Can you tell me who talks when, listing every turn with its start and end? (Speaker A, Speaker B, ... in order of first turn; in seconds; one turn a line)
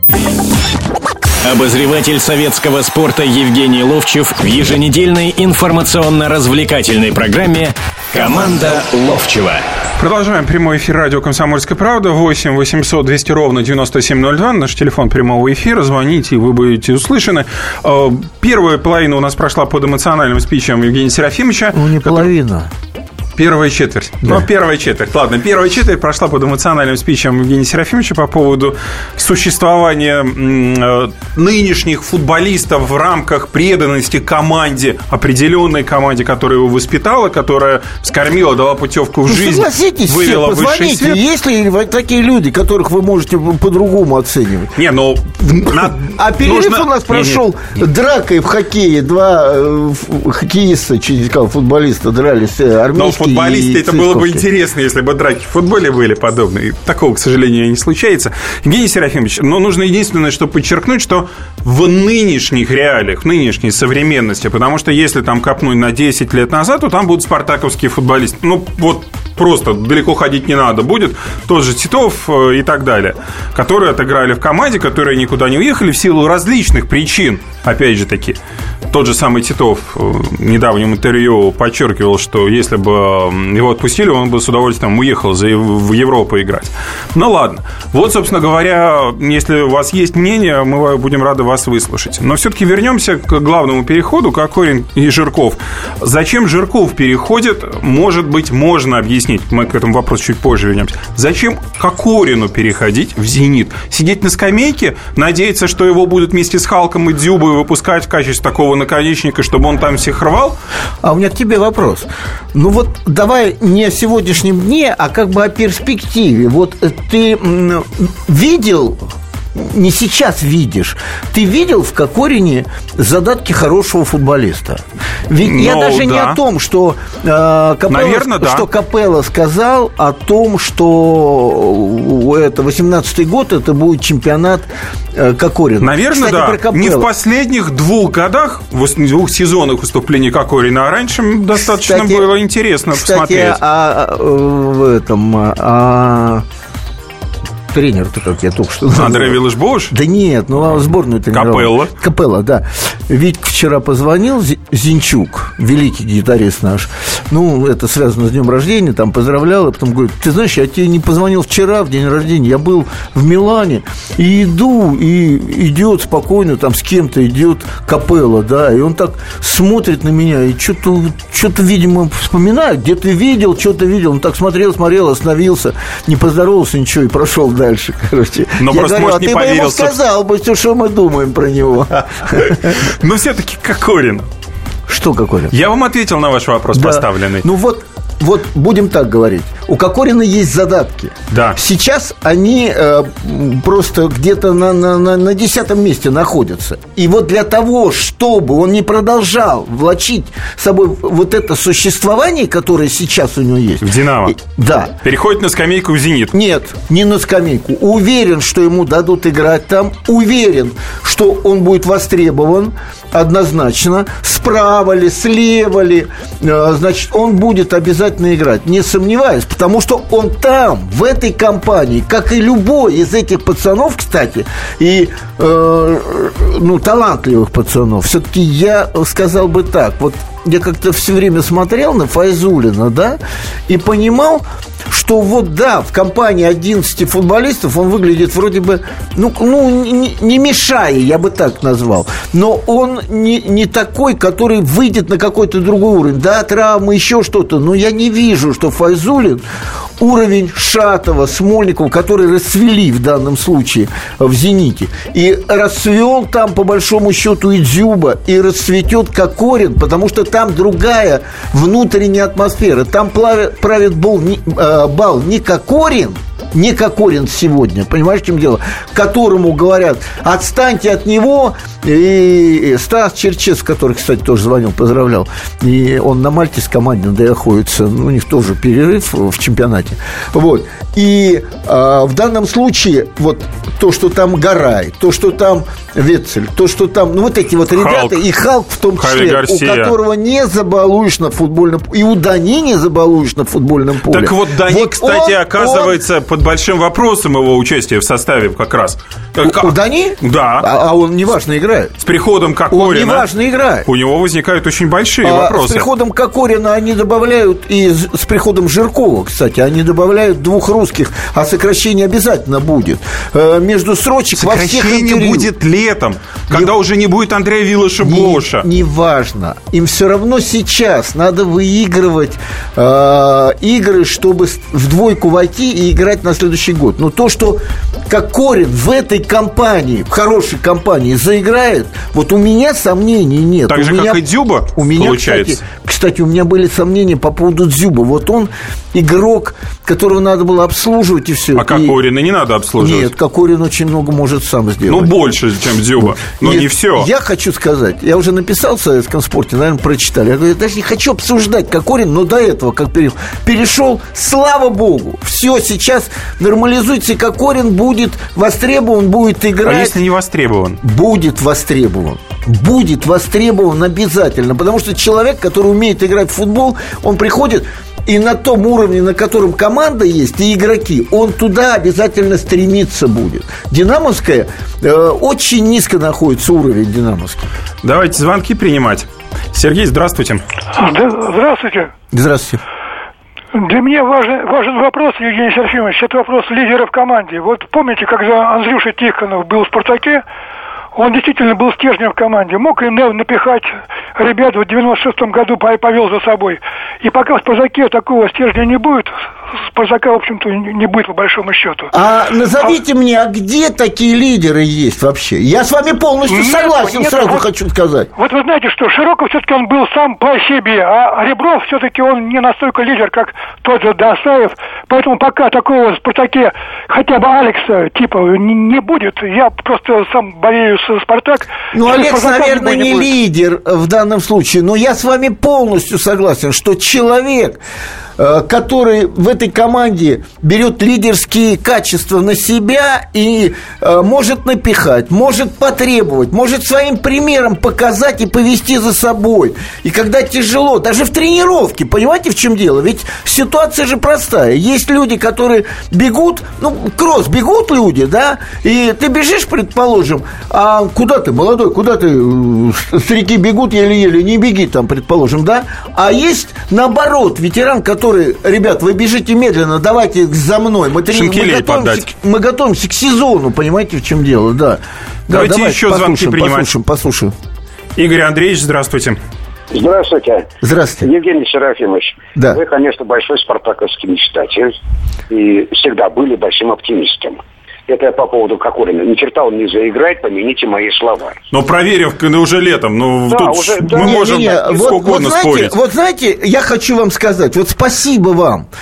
Speaker A: 1.4-9.6
Speaker B: 10.0-22.3
Speaker C: 21.7-22.7
Speaker B: 23.4-41.2
Speaker C: 39.3-44.7
Speaker B: 44.8-47.4
Speaker C: 45.6-54.4
Speaker B: 52.9-110.6
Speaker C: 111.0-137.1
Speaker B: 125.4-126.4
Speaker B: 127.9-128.7
Speaker B: 135.8-143.6
Speaker C: 141.6-142.3
Speaker C: 142.9-146.4
Speaker C: 147.7-182.7
Speaker B: 148.9-149.9
Speaker B: 151.3-151.9
Speaker B: 178.6-179.9
Speaker B: 182.3-184.3
Speaker C: 184.9-185.5
Speaker B: 185.5-187.4
Speaker C: 186.7-204.9
Speaker B: 191.3-191.6
Speaker B: 203.8-204.3
Speaker B: 205.0-206.3
Speaker C: 206.3-249.4
Speaker C: 250.0-296.0
Speaker B: 287.7-288.2
Speaker B: 289.0-289.9
Speaker B: 294.1-300.7
Speaker C: 299.4-301.9
Speaker B: 302.0-303.3
Speaker C: 302.7-303.9
Speaker B: 303.8-305.9
Speaker C: 305.2-315.5
Speaker B: 314.3-318.7
Speaker C: 318.0-334.2
Speaker B: 333.7-335.6
Speaker C: 334.7-341.9
Speaker B: 341.5-343.1
Speaker C: 342.8-345.1
Speaker B: 344.9-347.1
Speaker C: 346.0-360.0
Speaker B: 359.6-360.8
Speaker C: 360.8-377.5
Speaker B: 377.8-380.4
Speaker D: 380.8-381.9
Speaker C: 382.1-382.6
Speaker D: 383.5-390.2
Speaker D: 390.9-401.9
Speaker C: 401.9-408.1
Speaker D: 406.3-407.5
Speaker D: 408.2-423.1
Speaker C: 421.7-427.6
Speaker C: 428.2-467.3
Speaker B: 461.1-462.1
Speaker B: 465.3-466.7
Speaker B: 467.9-469.2
Speaker E: 469.7-470.5
Speaker C: 470.6-471.1
Speaker E: 471.0-474.8
Speaker E: 475.3-481.4
Speaker B: 481.5-485.8
Speaker E: 483.3-485.0
Speaker C: 483.9-488.6